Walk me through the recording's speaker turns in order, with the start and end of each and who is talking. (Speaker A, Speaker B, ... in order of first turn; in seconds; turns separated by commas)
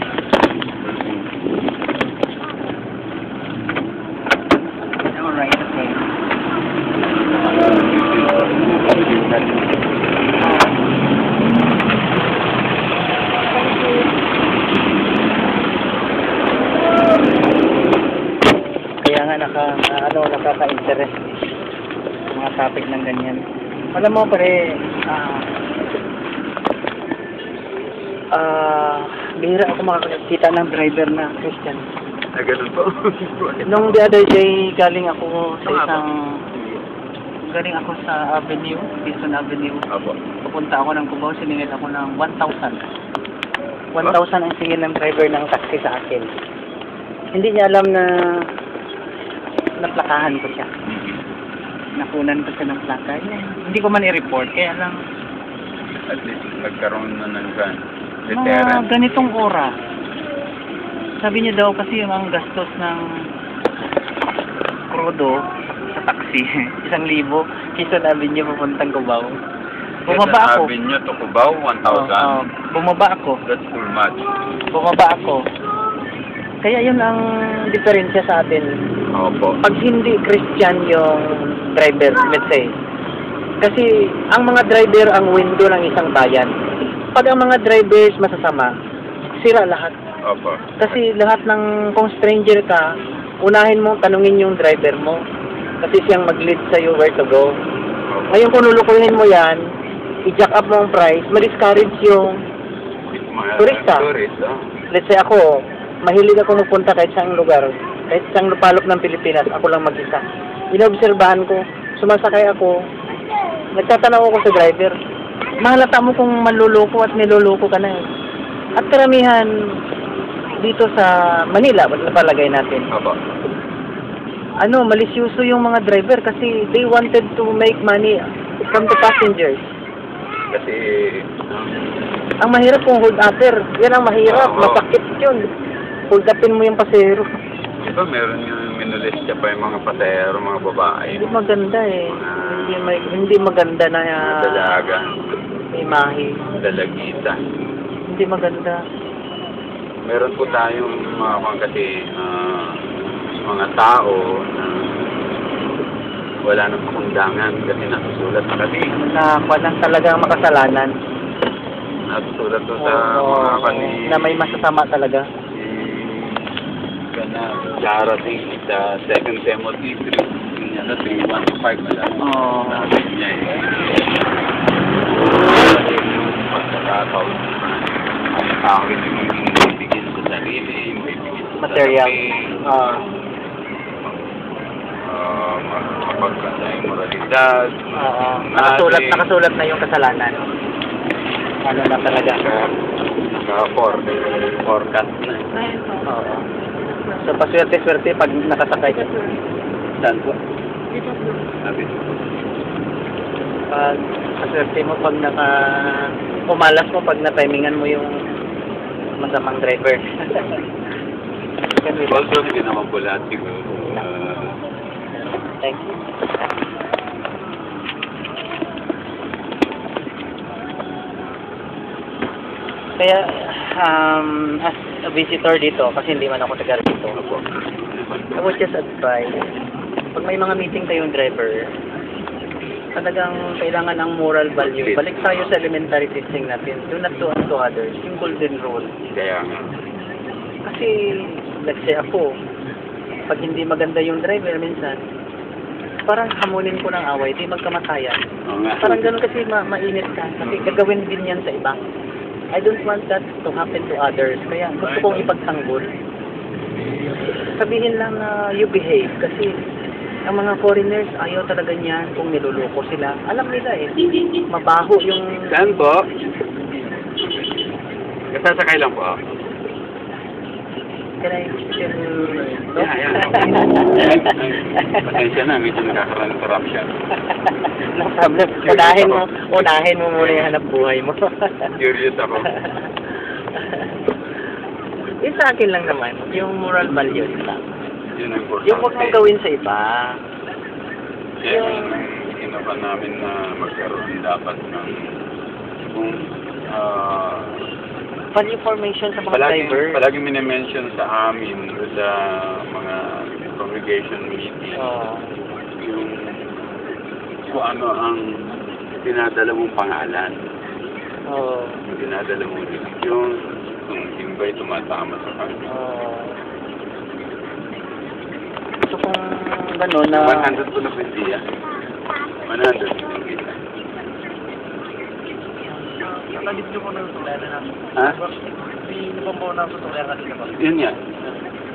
Speaker A: 0.8-1.3, Speaker B: 5.1-6.0, Speaker A: 7.1-9.8, Speaker B: 10.4-10.8, Speaker B: 13.5-14.1, Speaker B: 19.0-21.4, Speaker B: 22.3-23.4, Speaker B: 23.9-24.6, Speaker B: 25.1-25.5, Speaker B: 28.3-31.8, Speaker A: 32.4-34.1, Speaker B: 33.7-36.1, Speaker A: 35.6-36.8, Speaker B: 37.5-39.8, Speaker A: 39.9-40.2, Speaker B: 40.5-42.9, Speaker B: 44.0-46.3, Speaker B: 47.3-48.1, Speaker B: 49.8-50.7, Speaker A: 50.9-51.2, Speaker B: 52.0-55.0, Speaker A: 56.1-58.9, Speaker B: 58.3-59.7, Speaker B: 61.2-63.0, Speaker B: 64.9-65.4, Speaker B: 65.9-69.4, Speaker B: 70.1-70.7, Speaker A: 70.1-72.4, Speaker B: 71.9-73.4, Speaker A: 73.5-74.3, Speaker B: 74.7-75.4, Speaker B: 76.6-78.7, Speaker A: 79.1-79.6, Speaker B: 79.6-82.7, Speaker B: 83.6-86.5, Speaker B: 87.1-88.7, Speaker B: 89.4-89.9, Speaker A: 90.2-91.0, Speaker B: 90.8-92.9, Speaker B: 93.4-95.2, Speaker B: 95.8-97.5, Speaker A: 98.1-98.7, Speaker B: 98.3-99.6, Speaker B: 100.3-102.3, Speaker A: 103.1-104.6, Speaker B: 103.6-104.1, Speaker B: 104.9-105.5, Speaker B: 106.0-112.8, Speaker B: 113.8-115.0, Speaker B: 115.6-118.0, Speaker B: 118.8-119.5, Speaker B: 120.6-122.9, Speaker A: 122.9-123.2, Speaker B: 124.6-129.7, Speaker A: 130.5-131.8, Speaker B: 132.4-135.4, Speaker A: 134.2-134.8, Speaker B: 136.1-137.3, Speaker A: 137.8-141.4, Speaker B: 141.1-144.8, Speaker A: 142.1-143.2, Speaker A: 144.2-145.1, Speaker B: 145.8-146.3, Speaker A: 146.6-147.4, Speaker B: 148.1-148.8, Speaker A: 150.1-152.8, Speaker A: 153.5-154.9, Speaker A: 156.5-158.9, Speaker B: 159.0-160.9, Speaker A: 162.1-164.7, Speaker B: 162.8-165.2, Speaker A: 165.5-166.5, Speaker A: 167.1-172.2, Speaker B: 172.2-172.9, Speaker A: 172.7-174.2, Speaker A: 175.1-182.6, Speaker B: 181.6-183.0, Speaker A: 185.1-189.2, Speaker B: 188.0-190.4, Speaker B: 191.7-192.4, Speaker A: 192.1-192.7, Speaker A: 193.3-195.5, Speaker B: 196.0-196.4, Speaker B: 197.1-199.2, Speaker A: 200.0-200.4, Speaker A: 201.6-202.3, Speaker B: 203.7-208.1, Speaker B: 209.2-210.6, Speaker B: 211.8-212.2, Speaker A: 211.9-214.6, Speaker B: 215.2-216.0, Speaker B: 223.0-227.2, Speaker A: 227.2-228.7, Speaker B: 228.4-229.4, Speaker B: 230.2-231.7, Speaker B: 233.0-238.9, Speaker A: 234.6-235.6, Speaker A: 239.1-239.7, Speaker B: 240.7-242.3, Speaker B: 243.3-245.0, Speaker B: 246.1-248.2, Speaker A: 248.5-249.1, Speaker B: 248.8-251.8, Speaker A: 250.4-250.8, Speaker B: 252.6-255.9, Speaker A: 254.8-255.3, Speaker B: 257.3-259.5, Speaker B: 260.3-265.4, Speaker A: 265.5-266.1, Speaker A: 267.2-267.6, Speaker A: 268.3-269.2, Speaker B: 271.2-275.1, Speaker A: 272.4-276.9, Speaker B: 277.2-281.7, Speaker A: 278.5-279.3, Speaker A: 280.2-280.6, Speaker A: 281.8-282.5, Speaker B: 282.4-283.9, Speaker B: 285.2-287.6, Speaker A: 288.1-289.2, Speaker B: 288.6-290.2, Speaker A: 291.4-295.0, Speaker B: 291.5-292.0, Speaker A: 295.9-297.6, Speaker B: 298.3-300.0, Speaker A: 299.3-304.8, Speaker B: 304.8-305.2, Speaker A: 305.8-306.1, Speaker A: 307.5-308.2, Speaker A: 309.0-310.4, Speaker B: 311.3-311.8, Speaker A: 311.9-313.2, Speaker A: 313.9-315.6, Speaker B: 315.7-316.4, Speaker B: 318.8-320.6, Speaker A: 320.1-321.4, Speaker A: 322.4-323.6, Speaker B: 325.7-330.6, Speaker A: 330.6-331.2